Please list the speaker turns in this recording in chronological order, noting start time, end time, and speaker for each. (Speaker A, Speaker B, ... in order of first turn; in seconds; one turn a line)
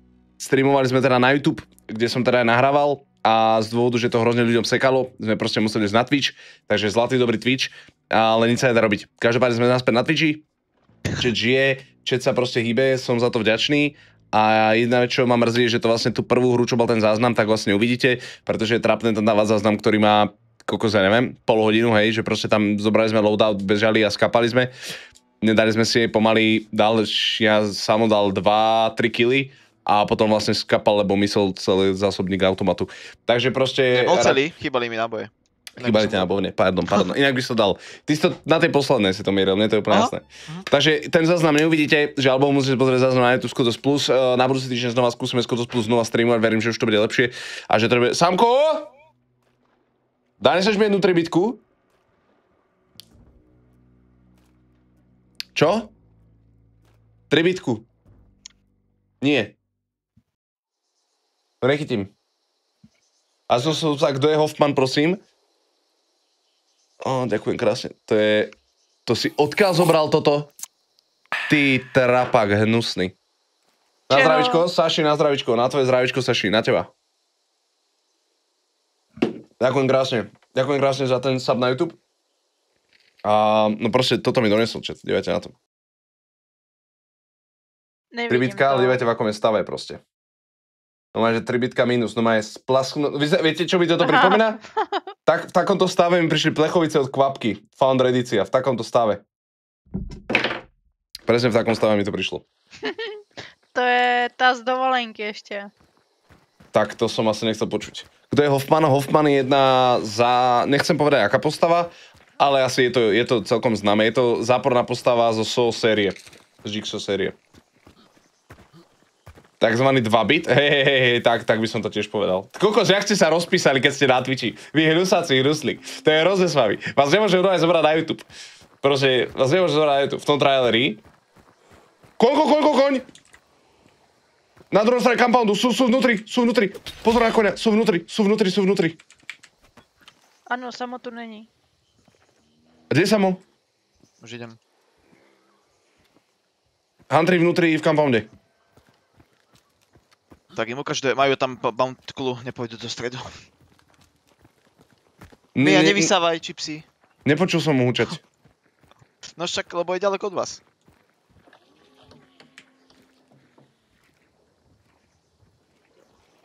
Speaker A: 0.4-10.4
Speaker A: 11.2-24.7
Speaker A: 25.4-34.4
Speaker B: 33.9-36.3
Speaker A: 35.8-48.9
Speaker B: 39.9-40.6
Speaker A: 50.4-51.6
Speaker A: 55.5-55.9
Speaker A: 57.3-57.9
Speaker A: 59.2-59.5
Speaker A: 61.6-62.1
Speaker A: 63.5-65.2
Speaker A: 67.0-68.5
Speaker A: 69.1-70.5
Speaker A: 71.5-73.2
Speaker C: 74.1-74.7
Speaker A: 74.1-76.9
Speaker A: 79.6-82.0
Speaker A: 83.2-85.5
Speaker C: 88.1-89.0
Speaker A: 88.3-90.0
Speaker A: 91.1-94.6
Speaker C: 94.0-95.0
Speaker A: 95.3-99.2
Speaker A: 101.3-102.5
Speaker C: 102.8-103.2
Speaker C: 103.7-105.7
Speaker A: 106.7-117.4
Speaker A: 119.6-128.3
Speaker A: 128.8-131.0
Speaker A: 132.2-133.1
Speaker A: 134.7-139.0
Speaker C: 140.5-141.5
Speaker A: 142.9-143.4
Speaker B: 144.2-144.6
Speaker A: 147.1-148.3
Speaker B: 150.5-153.4
Speaker A: 155.6-156.1
Speaker B: 155.6-156.9
Speaker A: 157.2-158.2
Speaker B: 159.3-160.6